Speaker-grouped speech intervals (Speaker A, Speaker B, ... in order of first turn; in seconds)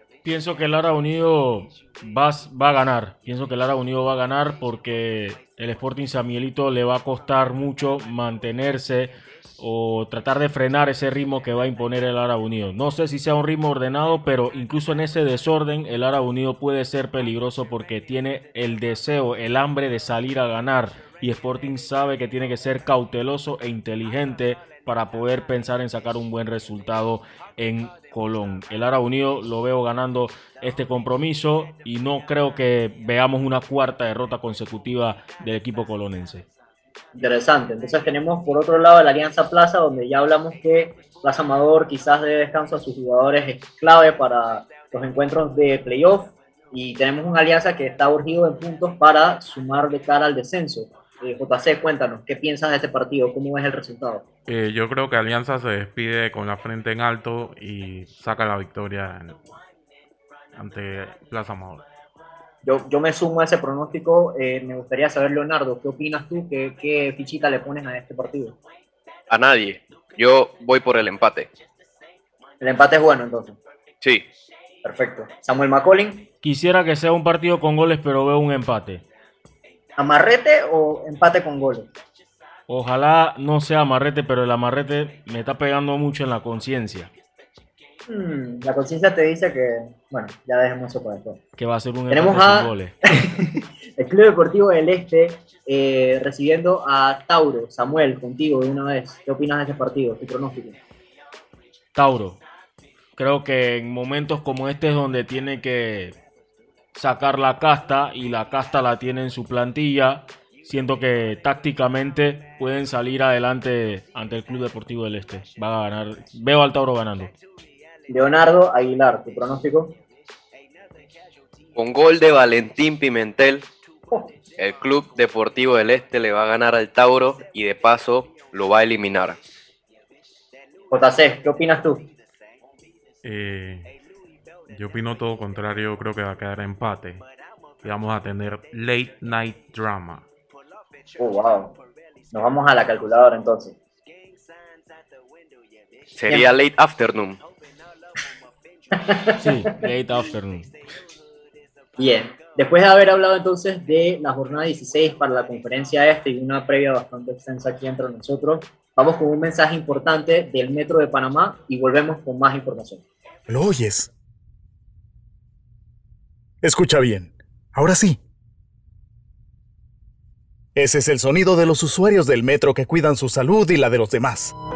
Speaker A: 0.2-36.4, 76.4-79.0, 82.7-87.1, 91.6-92.9, 101.9-102.4, 103.2-106.2, 106.9-117.3, 149.4-150.7
Speaker B: 37.1-54.2, 62.6-68.6, 72.6-73.6, 74.8-76.3, 80.0-81.9, 88.1-91.4, 92.1-100.8, 118.1-119.9, 130.9-132.1, 141.2-141.8, 142.3-143.8, 149.0-149.3, 152.0-163.0
Speaker C: 54.5-59.4, 60.5-61.8, 133.2-133.9, 134.7-137.2, 137.8-140.2
Speaker D: 69.3-71.5, 121.8-123.7, 124.6-129.4, 146.1-147.4
Speaker E: 163.5-164.1, 166.6-168.2, 170.8-174.5